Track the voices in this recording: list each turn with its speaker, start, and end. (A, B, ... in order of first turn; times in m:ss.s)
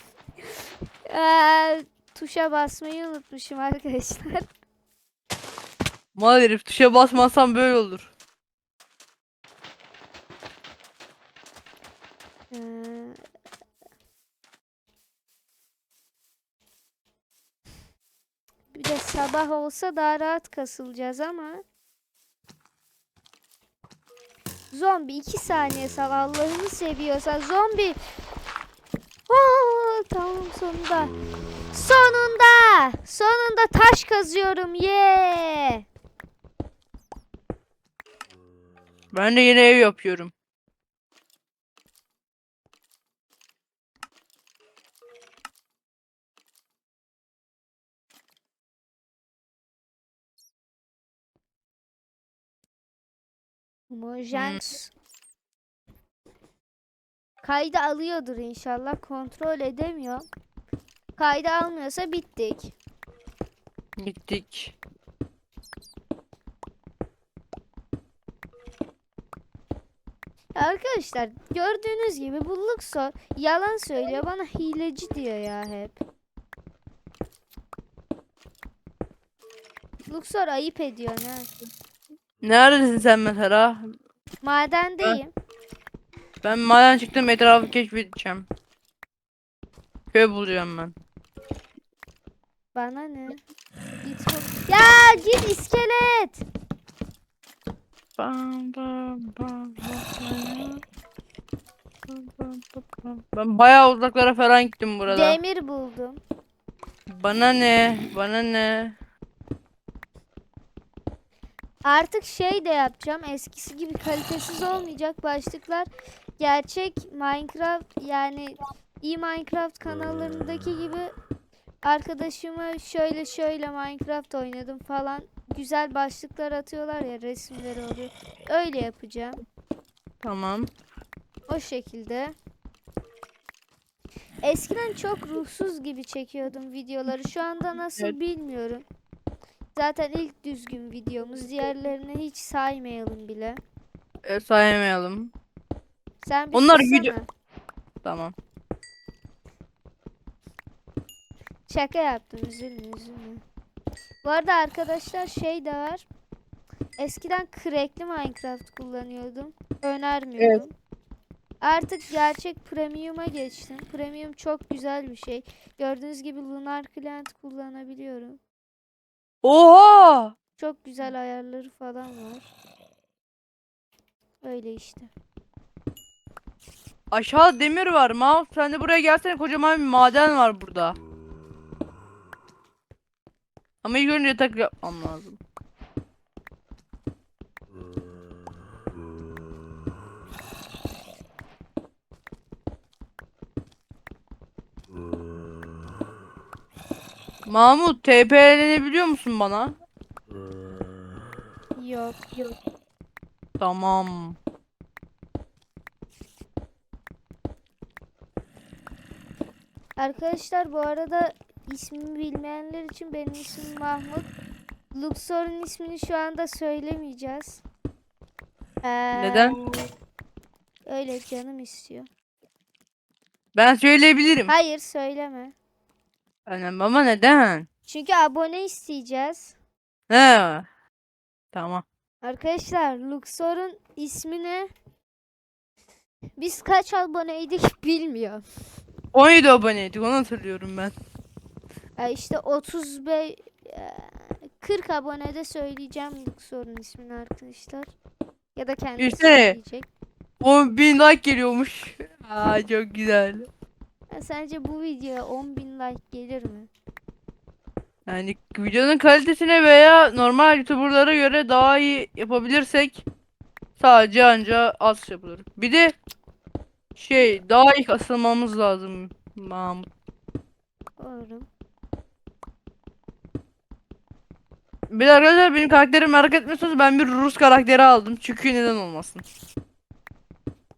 0:01.1-0:04.5 A
0:06.2-0:08.1 B
0:12.5-0:13.2 A
0:18.7-0:21.6 A
0:24.7-0:28.0 A
0:29.3-0:31.2 A
0:31.7-0:35.8 A
0:39.1-0:40.3 B
0:53.9-0:54.9 A
0:54.3-0:54.6 B
0:57.4-1:00.3 A
1:01.2-1:02.7 A
1:04.0-1:04.8 B
1:10.6-1:16.0 A
1:20.1-1:21.5 A
1:22.4-1:23.9 B
1:24.4-1:25.3 A
1:26.4-1:28.5 B
1:30.1-1:31.0 B
1:32.8-1:33.4 A
1:34.0-1:36.4 A
1:38.2-1:40.8 B
1:42.1-1:45.4 B
1:45.1-1:46.2 A
1:47.1-1:49.0 B
1:51.8-1:55.9 A
1:56.4-2:01.1 A
2:01.8-2:09.4 A
2:10.2-2:10.7 B
2:11.5-2:12.4 A
2:14.4-2:18.8 A
2:19.8-2:23.6 A
2:24.3-2:25.3 B
2:26.2-2:27.3 A
2:26.5-2:27.2 B
2:28.0-2:28.3 B
2:31.7-2:33.4 A
2:34.2-2:36.1 A
2:37.0-2:40.7 A
2:40.4-2:40.6 B
2:41.6-2:48.4 A
2:49.4-2:50.4 B
2:50.6-2:52.5 A
2:54.4-2:55.1 A
2:57.1-3:01.0 B
3:03.8-3:05.4 B
3:17.5-3:19.8 B
3:21.8-3:22.5 A
3:23.6-3:24.4 B
3:30.0-3:34.3 A
3:34.9-3:37.6 A
3:38.8-3:39.6 A
3:39.2-3:39.6 B
3:40.8-3:42.1 A
3:43.6-3:44.5 B
3:44.5-3:45.5 A
3:46.5-3:47.7 B
3:47.9-3:49.6 A
3:50.1-3:50.7 B
3:51.5-3:51.8 B
3:52.2-3:54.7 A
3:56.4-3:58.4 A
3:59.1-4:01.0 B
4:02.0-4:07.9 A
4:08.6-4:09.9 A
4:09.0-4:09.6 B
4:10.4-4:13.5 B
4:14.1-4:16.7 A
4:18.1-4:23.1 B
4:23.8-4:26.0 B
4:27.0-4:29.9 B
4:31.0-4:31.5 A
4:34.9-4:39.2 B